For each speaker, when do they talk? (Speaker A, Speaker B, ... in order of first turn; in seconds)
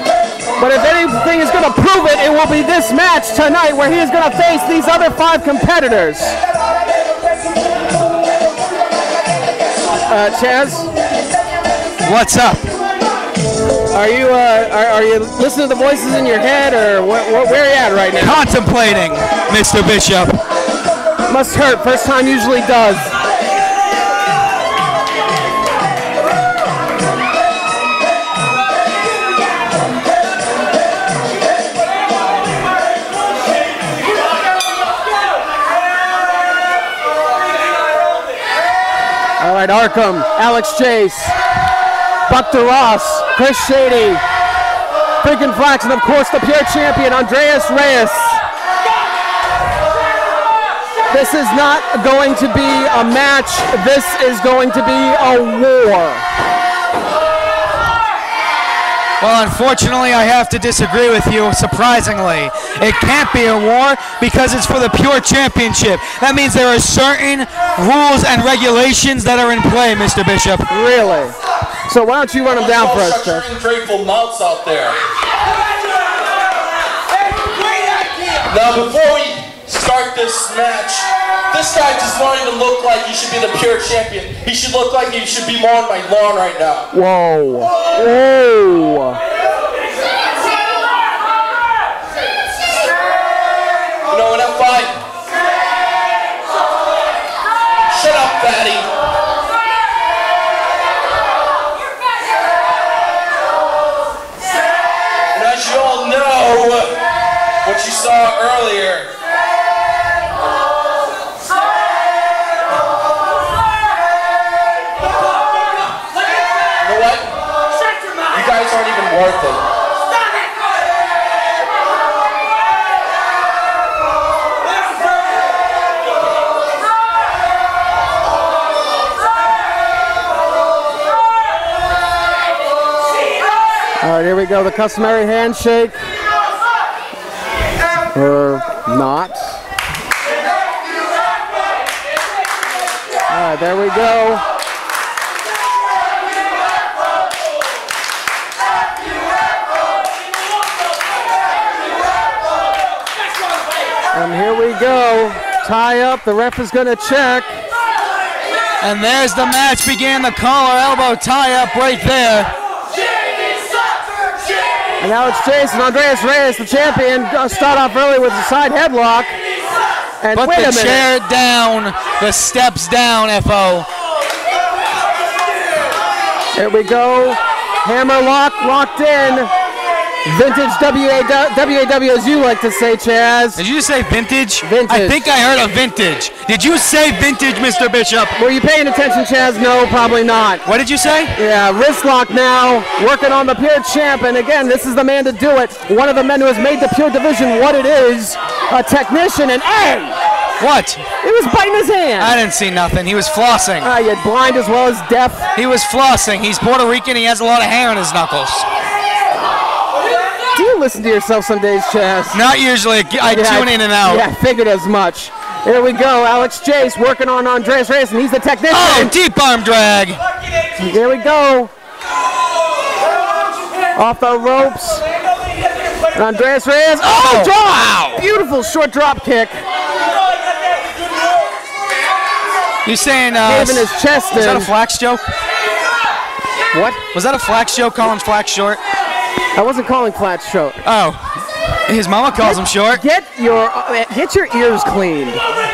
Speaker A: 0.6-6.4, 10.1-10.9, 13.9-18.4, 21.3-23.1, 39.4-41.4, 42.3-44.2, 45.2-48.4, 51.1-56.2, 70.7-71.3, 71.9-73.4, 86.9-89.2, 134.0-136.0, 138.1-139.6, 143.3-144.4, 154.1-157.6, 165.0-169.4, 170.2-171.0, 176.6-179.5, 180.2-183.6, 184.6-185.2, 188.4-190.6, 191.3-200.2, 201.2-202.3, 203.8-205.5, 210.5-212.4, 213.2-219.1, 220.8-221.7, 223.9-225.0, 226.1-229.6, 233.4-234.7, 236.7-237.0, 239.6-240.8, 242.4-245.4
Speaker B: 12.0-12.7, 18.2-20.4, 59.2-70.7, 158.8-162.5, 170.3-173.9, 183.6-188.3, 190.7-191.4, 200.6-201.0, 202.2-203.9, 205.6-208.7, 212.3-214.3, 218.7-220.2, 227.0-228.2, 232.8-235.2, 237.1-238.8, 240.8-241.2, 241.9-243.0
Speaker C: 72.5-75.0, 78.5-86.9, 94.1-95.0, 97.9-98.9, 105.3-107.0, 107.6-109.1, 116.8-117.3, 118.3-119.6